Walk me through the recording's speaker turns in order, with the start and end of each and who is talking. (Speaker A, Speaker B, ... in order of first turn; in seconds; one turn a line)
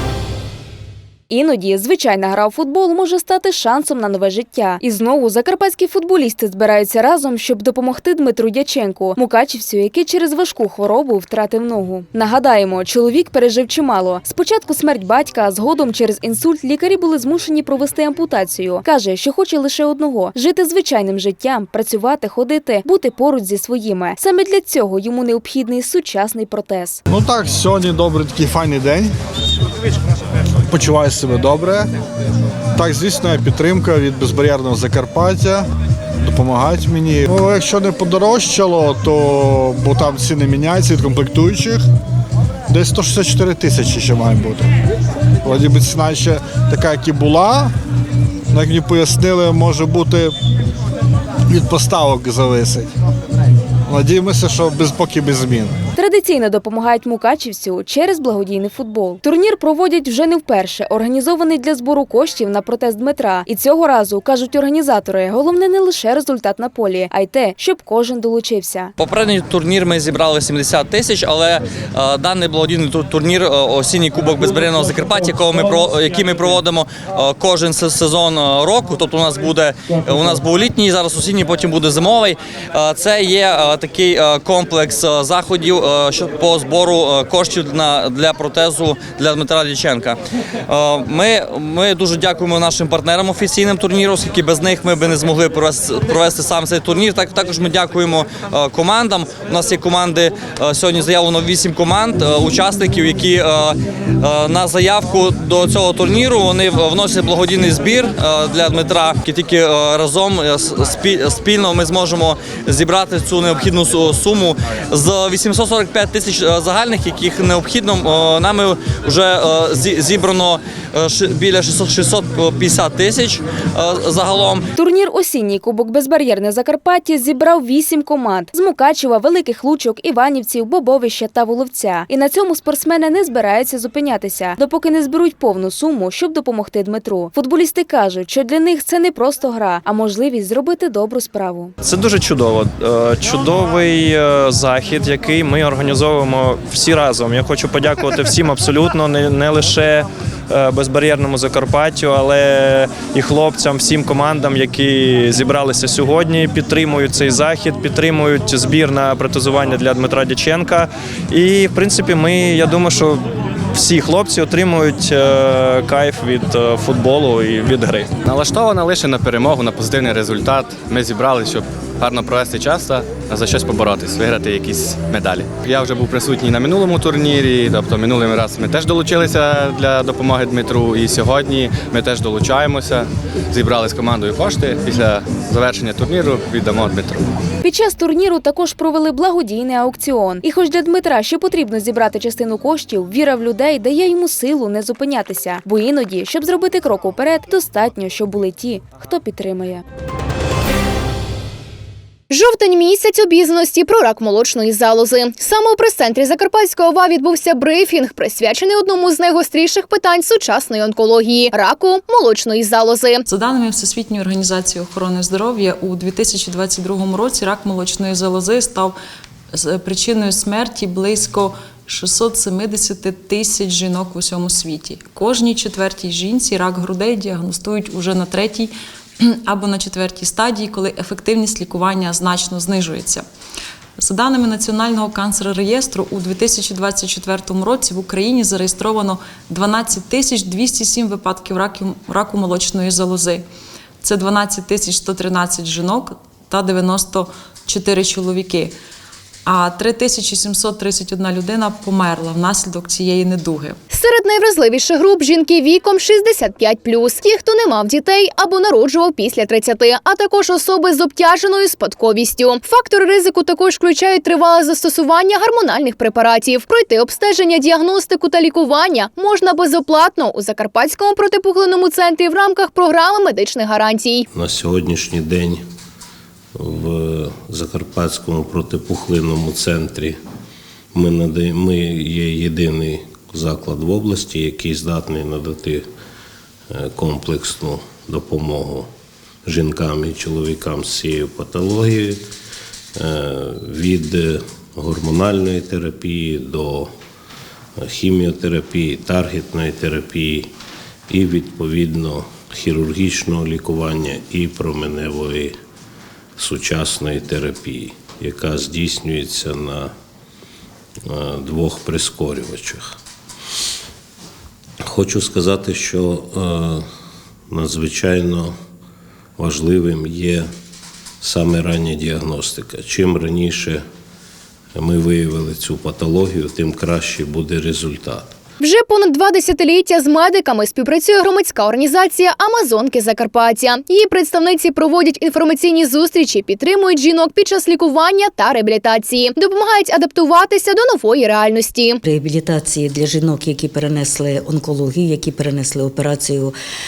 Speaker A: 1.3-27.0
Speaker B: 27.1-29.1
Speaker B: 30.7-31.9
Speaker B: 32.8-35.7
Speaker B: 36.2-41.8
Speaker B: 42.7-44.7
Speaker B: 45.4-47.7
Speaker B: 48.5-50.3
Speaker B: 51.5-52.9
Speaker B: 53.9-55.8
Speaker A: 56.0-68.9
Speaker C: 69.0-90.2
Speaker C: 90.7-124.7
Speaker A: 124.8-141.7
Speaker D: 141.8-168.2
Speaker E: 168.2-187.3
Speaker A: 187.6-199.8
Speaker F: 202.3-213.2
Speaker G: 213.3-219.0
Speaker G: 219.5-233.3
Speaker G: 234.0-243.5
Speaker G: 244.0-248.8
Speaker G: 249.5-253.8
Speaker F: 253.9-274.2
Speaker H: 274.3-275.6
Speaker H: 276.6-280.2
Speaker H: 280.9-285.8
Speaker H: 286.7-288.9
Speaker H: 289.5-292.2
Speaker H: 293.0-296.9
Speaker H: 297.8-300.5
Speaker H: 301.1-305.5
Speaker H: 306.4-309.9
Speaker H: 311.1-313.0
Speaker H: 314.9-316.9
Speaker H: 317.5-318.5
Speaker H: 319.4-320.5
Speaker H: 321.2-323.8
Speaker H: 324.8-328.3
Speaker F: 328.6-342.0
Speaker I: 342.0-346.6